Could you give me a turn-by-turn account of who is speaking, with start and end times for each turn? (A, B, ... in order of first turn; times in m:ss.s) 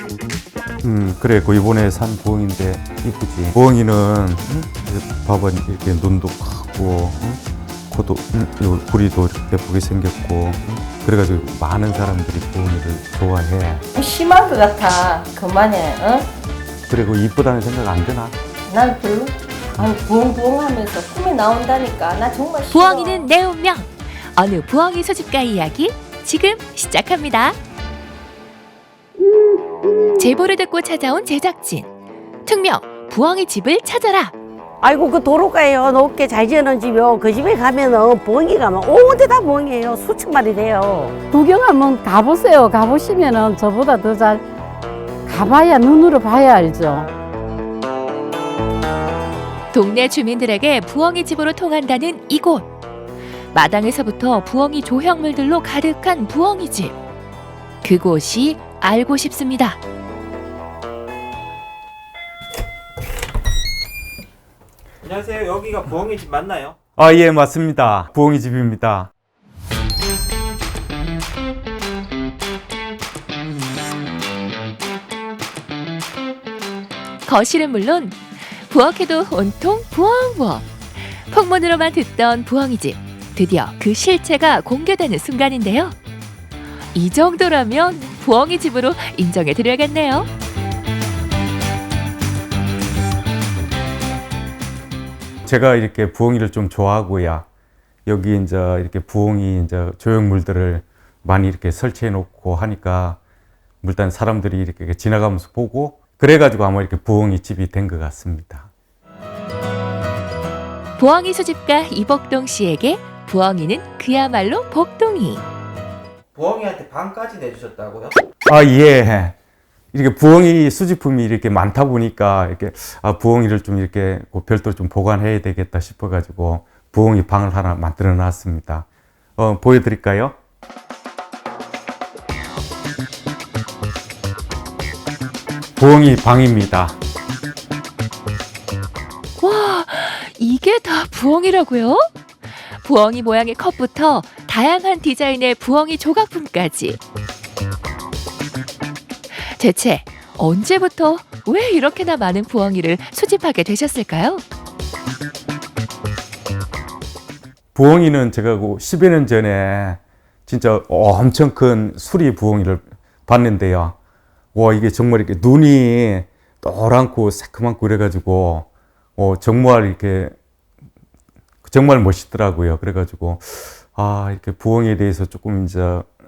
0:00.8-0:13.8 A
0:13.9-0:16.3 B
0:16.9-0:18.4 A
0:18.7-0:23.2 B
0:22.7-0:27.6 C
0:30.2-0:31.9 C
0:32.4-0:34.3 C
0:34.8-0:41.1 D
0:41.3-0:44.4 E
0:45.2-0:47.1 E
0:49.7-0:52.7 C
0:53.5-0:57.0 C
0:57.8-0:59.8 C
1:05.0-1:06.7 F
1:07.0-1:09.1 A
1:17.2-1:26.0 C
1:26.9-1:30.3 C
1:35.4-1:37.4 A
1:38.0-1:43.2 A
1:43.8-1:48.7 A
1:51.0-1:55.4 C
1:56.3-1:58.1 F
1:58.5-1:59.3 A
1:59.9-2:08.8 A
2:09.4-2:10.3 A
2:15.8-2:17.0 A
2:19.4-2:27.0 C
2:29.4-2:34.4 C
2:37.7-2:44.0 A
2:44.5-2:50.3 A
2:51.6-2:56.1 A